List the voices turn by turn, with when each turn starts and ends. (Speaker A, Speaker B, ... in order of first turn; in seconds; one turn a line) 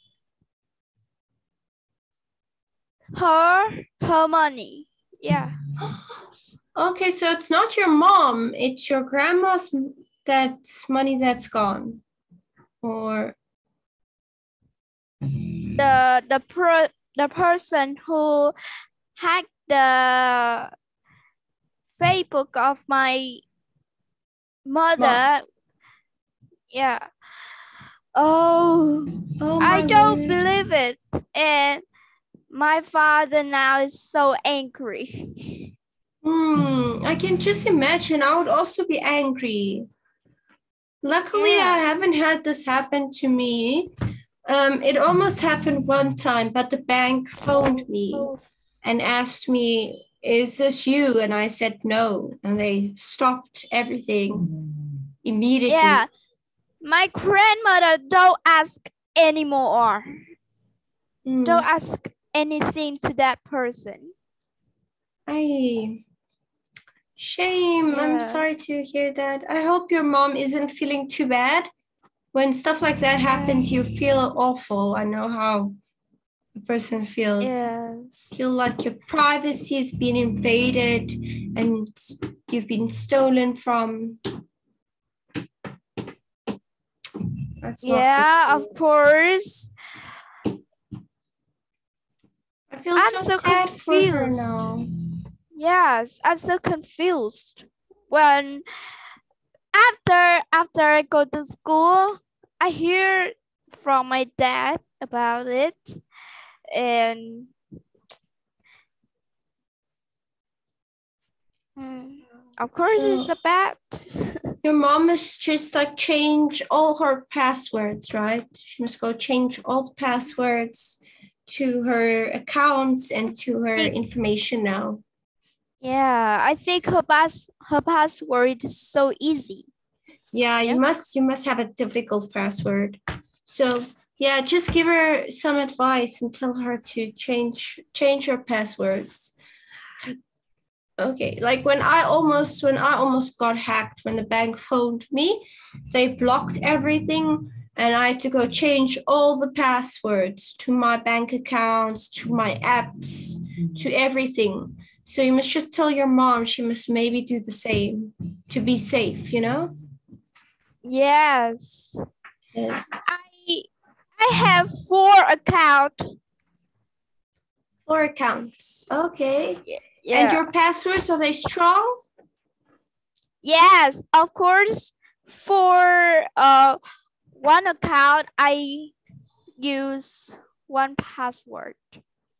Speaker A: 3.1-5.6
Speaker B: 5.8-6.1
Speaker B: 6.7-12.0
Speaker B: 12.8-13.4
Speaker A: 15.8-18.5
Speaker A: 19.1-20.7
Speaker A: 22.0-23.4
Speaker A: 24.6-25.4
Speaker A: 26.7-27.1
Speaker A: 28.1-31.8
Speaker B: 29.4-30.4
Speaker A: 32.5-35.6
Speaker B: 36.2-39.9
Speaker B: 41.0-43.9
Speaker A: 41.3-41.8
Speaker B: 44.5-48.3
Speaker A: 47.5-48.4
Speaker B: 48.8-54.5
Speaker B: 55.2-56.0
Speaker A: 55.7-56.1
Speaker A: 56.8-60.2
Speaker B: 61.2-61.6
Speaker A: 61.4-64.1
Speaker B: 65.3-66.0
Speaker B: 67.2-71.7
Speaker A: 67.9-68.4
Speaker B: 72.3-75.8
Speaker A: 73.3-73.7
Speaker B: 76.6-77.6
Speaker A: 77.4-78.6
Speaker B: 78.3-84.2
Speaker B: 87.6-88.8
Speaker A: 87.8-89.7
Speaker B: 92.7-94.9
Speaker A: 93.0-94.6
Speaker A: 95.5-98.6
Speaker A: 99.7-106.0
Speaker A: 106.7-107.5
Speaker A: 111.8-114.5
Speaker B: 113.0-113.3
Speaker B: 114.6-125.0
Speaker A: 125.8-129.7
Speaker B: 130.3-139.3
Speaker B: 141.0-159.7
Speaker A: 160.8-161.9
Speaker B: 162.5-162.8
Speaker A: 163.0-166.1
Speaker B: 167.8-172.0
Speaker A: 169.7-170.5
Speaker A: 173.4-176.8
Speaker A: 177.3-178.9
Speaker A: 179.6-182.0